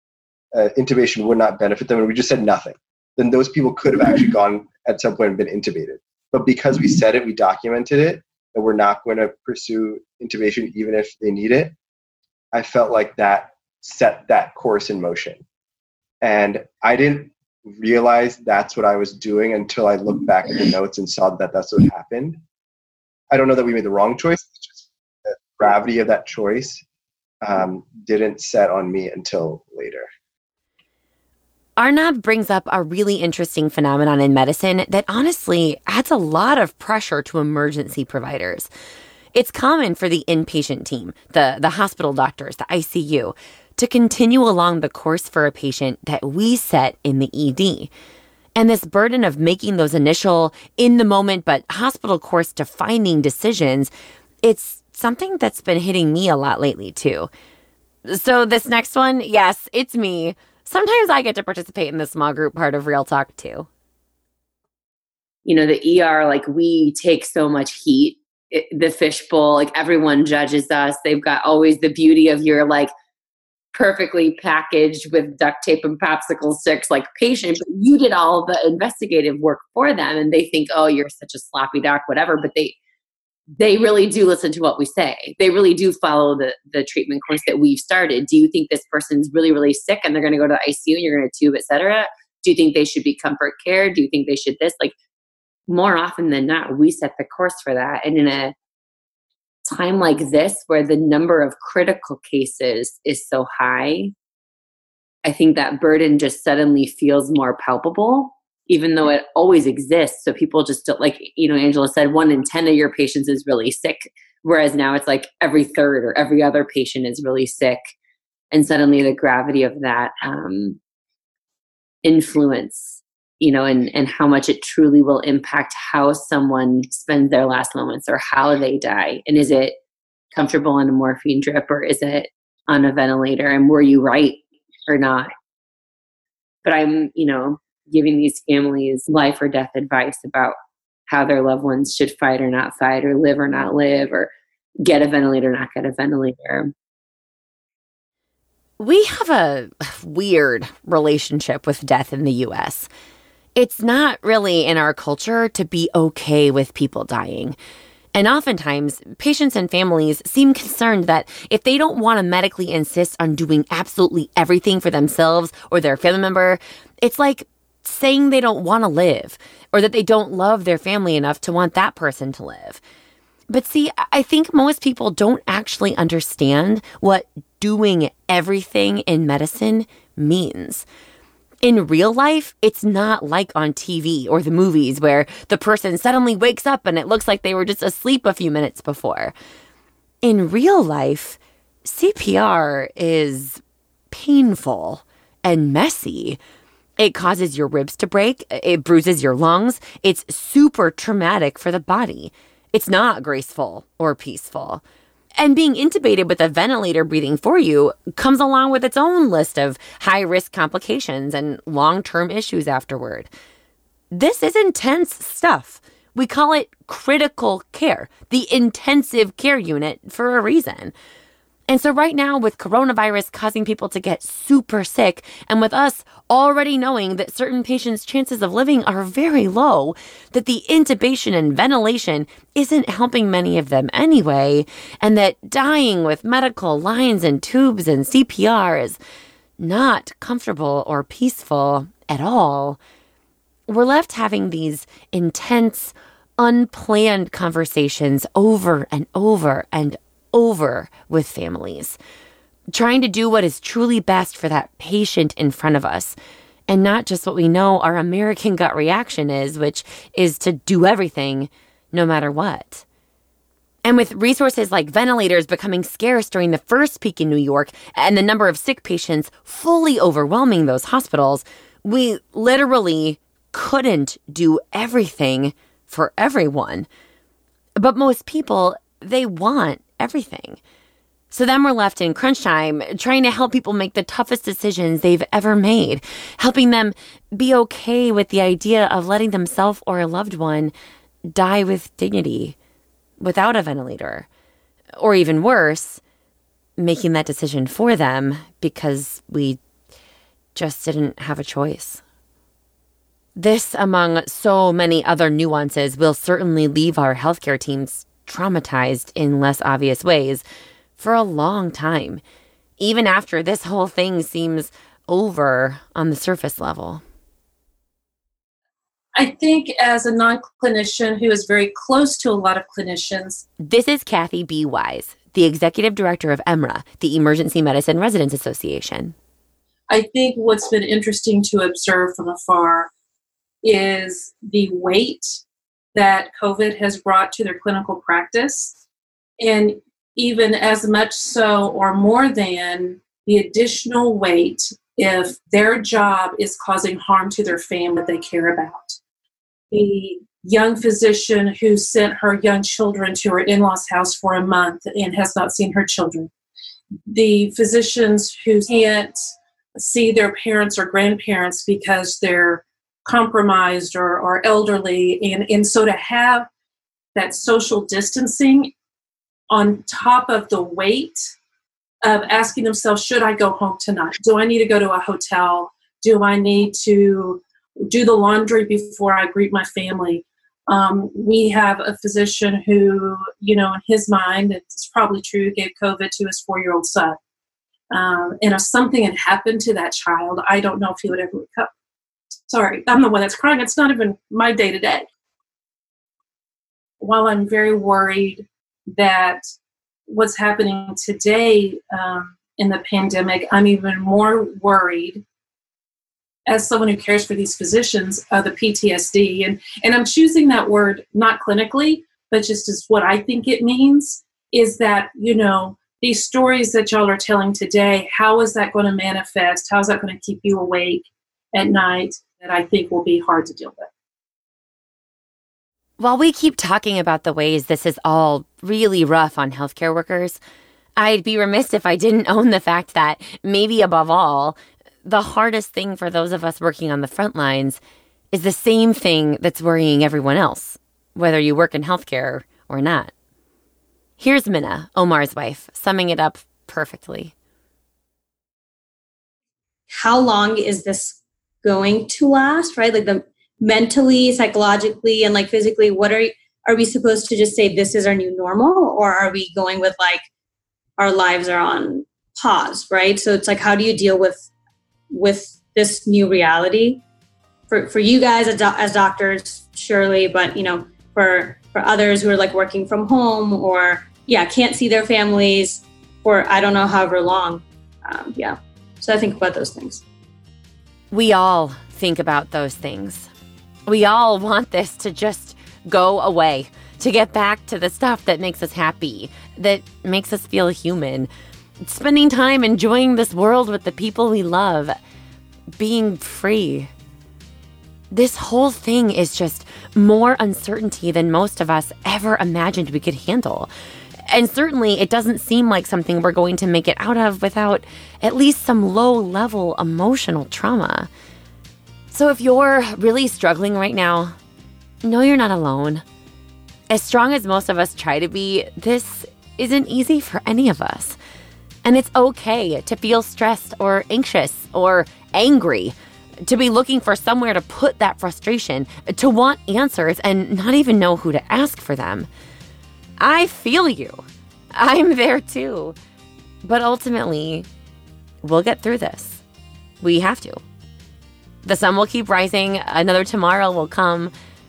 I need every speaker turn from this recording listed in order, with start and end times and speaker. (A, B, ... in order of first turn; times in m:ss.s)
0:00.5-0:11.7 A
0:12.5-0:15.4 A
0:16.2-0:22.4 A
0:23.3-0:26.8 A
0:27.4-0:30.1 A
0:31.8-0:38.7 B
0:39.3-0:47.9 B
0:48.6-0:53.9 B
0:54.4-0:57.3 B
0:58.0-1:03.7 B
1:05.5-1:12.9 C
1:05.5-1:07.8 B
1:08.6-1:12.8 B
1:13.7-1:22.7 C
1:13.8-1:16.9 B
1:18.1-1:19.0 B
1:20.5-1:21.5 B
1:22.1-1:22.6 B
1:23.6-1:34.9 C
1:23.9-1:24.4 B
1:25.9-1:26.5 B
1:27.1-1:27.9 B
1:30.6-1:30.9 B
1:33.6-1:34.4 B
1:35.7-1:38.5 C
1:37.5-1:38.1 B
1:39.7-1:44.1 C
1:39.8-1:40.7 B
1:41.4-1:44.0 B
1:45.2-1:57.8 C
1:45.4-1:48.2 B
1:49.0-1:50.9 B
1:52.4-1:53.1 B
1:58.5-2:00.8 C
1:58.6-1:59.4 B
2:02.0-2:02.8 C
2:03.4-2:09.7 C
2:04.4-2:09.7 B
2:10.3-2:14.4 C
2:10.5-2:12.0 B
2:13.1-2:14.2 B
2:14.9-2:15.2 C
2:14.9-2:15.2 B
2:16.6-2:20.5 C
2:16.7-2:17.5 B
2:18.1-2:20.5 B
2:21.1-2:24.3 C
2:21.3-2:24.2 B
2:24.8-2:26.6 C
2:24.9-2:26.6 B
2:28.8-2:32.9 B
2:33.6-2:37.6 B
2:38.1-2:52.8 B
2:53.5-3:00.8 B
3:01.6-3:09.3 B
3:10.2-3:16.4 B
3:17.0-3:24.8 B
3:25.4-3:33.3 B
3:34.1-3:40.9 B
3:41.7-3:59.0 B
3:59.6-4:02.8 B
4:03.7-4:12.0 B
4:12.7-4:16.2 B
4:16.7-4:22.8 B
4:23.8-4:36.9 B
4:37.8-4:40.6 B
4:41.3-4:50.7 B
4:51.3-4:52.5 B
4:53.2-4:54.3 B
4:55.0-4:56.0 B
4:56.8-4:59.6 B
5:00.5-5:02.0 B
5:03.4-5:10.4 B
5:11.0-5:12.2 B
5:12.8-5:17.0 B
5:19.1-5:23.4 D
5:23.6-5:29.1 B
5:29.9-5:32.9 D
5:33.6-5:35.4 D
5:35.9-5:38.8 D
5:39.4-5:49.0 D
5:49.7-5:56.3 D
5:57.1-6:06.5 D
6:07.1-6:08.7 D
6:09.5-6:11.3 D
6:12.0-6:27.2 D
6:27.9-6:31.7 D
6:32.5-6:35.0 D
6:37.0-6:39.4 D
6:40.1-6:45.2 D
6:46.4-7:03.9 D
7:06.0-7:10.4 B
7:11.0-7:17.8 B
7:18.3-7:23.1 B
7:24.2-7:27.3 B
7:29.9-7:40.2 E
7:41.0-7:44.5 E
7:45.1-7:47.0 E
7:47.7-8:00.0 E
8:01.1-8:03.3 B
8:03.9-8:11.3 B
8:11.8-8:14.9 B
8:15.8-8:16.9 B
8:18.1-8:23.7 B
8:24.3-8:31.1 B
8:32.1-8:34.3 B
8:35.0-8:36.0 B
8:36.9-8:41.2 B
8:41.8-8:45.9 B
8:46.4-8:52.3 B
8:53.2-8:54.2 B
8:54.8-8:56.0 B
8:56.6-8:57.7 B
8:58.4-8:59.4 B
9:00.0-9:00.6 B
9:01.6-9:04.3 B